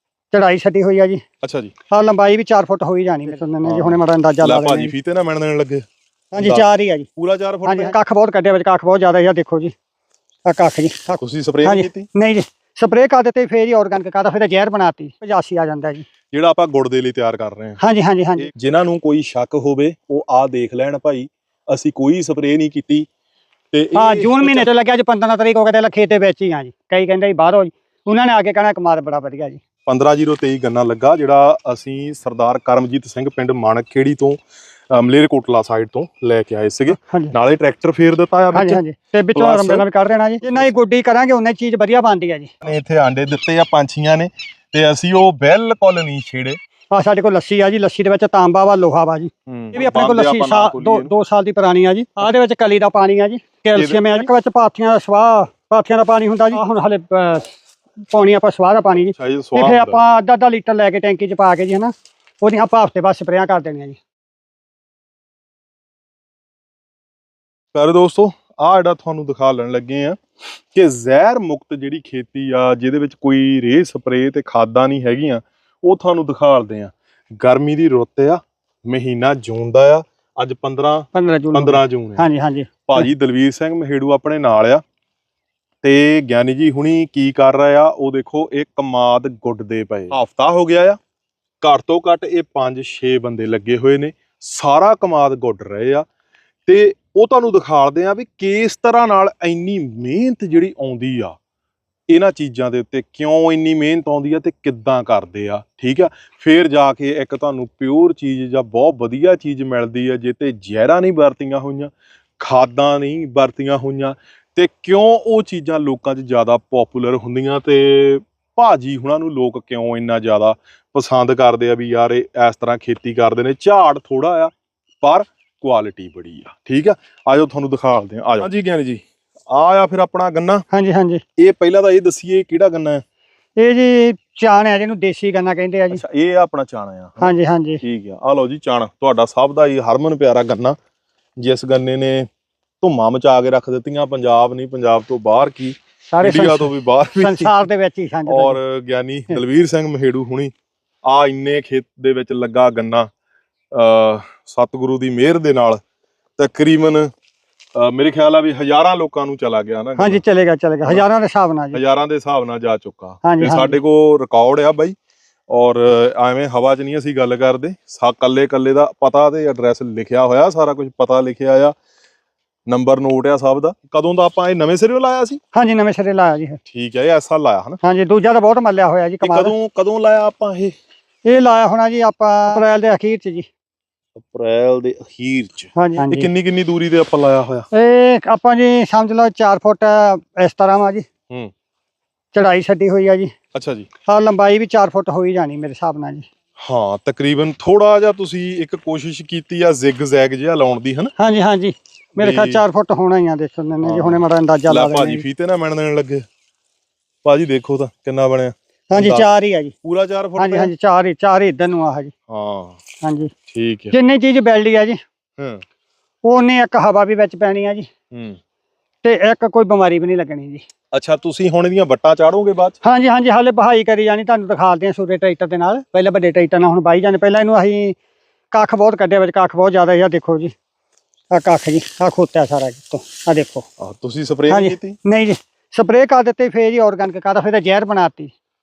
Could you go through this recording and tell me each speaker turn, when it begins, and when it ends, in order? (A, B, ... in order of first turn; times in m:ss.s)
0:00.3-0:01.2 A
0:01.4-0:01.7 B
0:01.9-0:04.9 A
0:03.6-0:05.8 B
0:06.3-0:07.1 A
0:06.4-0:08.0 B
0:07.6-0:09.7 A
0:10.4-0:16.0 A
0:11.2-0:12.1 B
0:16.3-0:17.8 B
0:17.8-0:18.5 A
0:18.4-0:23.1 B
0:23.7-0:24.7 B
0:23.9-0:29.6 A
0:29.9-0:34.4 B
0:34.9-0:38.8 B
0:36.9-0:37.3 A
0:38.5-0:42.5 A
0:39.3-0:39.8 B
0:40.4-0:40.7 B
0:42.6-0:46.6 B
0:46.9-0:57.6 A
0:49.5-0:51.1 B
0:53.7-0:54.3 B
0:58.1-1:04.0 A
0:59.0-1:00.0 B
1:07.7-1:10.2 B
1:10.7-1:22.2 B
1:21.1-1:23.1 A
1:22.9-1:24.8 B
1:25.8-1:31.0 B
1:31.6-1:36.0 B
1:36.6-1:41.4 B
1:42.1-2:10.6 B
2:10.7-2:11.2 A
2:11.4-2:13.0 B
2:13.6-2:16.0 A
2:15.9-2:20.8 B
2:17.2-2:17.8 A
2:21.4-2:22.2 B
2:22.8-2:27.5 B
2:26.1-2:28.6 A
2:28.3-2:30.5 B
2:31.0-2:33.1 B
2:33.7-2:35.8 B
2:36.4-2:37.1 B
2:37.8-2:40.2 B
2:40.0-2:41.8 A
2:41.7-2:44.9 B
2:43.2-2:43.8 A
2:45.5-2:51.7 B
2:52.7-2:55.4 B
2:55.5-2:56.6 A
2:56.7-2:57.8 B
2:57.8-2:59.5 A
2:59.2-3:00.7 B
3:01.2-3:03.5 A
3:04.1-3:07.7 B
3:05.8-3:06.3 A
3:07.7-3:11.1 A
3:12.3-3:13.3 A
3:13.5-3:13.9 B
3:14.0-3:16.3 A
3:16.6-3:21.1 B
3:21.2-3:25.2 A
3:22.2-3:22.6 B
3:23.8-3:26.2 B
3:27.2-3:29.3 B
3:28.9-3:29.7 A
3:29.8-3:30.7 B
3:30.4-3:32.1 A
3:32.3-3:32.8 B
3:33.0-3:33.3 A
3:33.5-3:33.9 B
3:33.9-3:35.0 A
3:36.2-3:37.9 A
3:38.1-3:38.4 B
3:39.0-3:40.6 A
3:40.9-3:42.8 B
3:42.8-3:48.0 A
3:48.5-3:50.5 A
3:51.3-3:53.7 A
3:53.8-3:55.0 B
3:54.5-3:58.3 A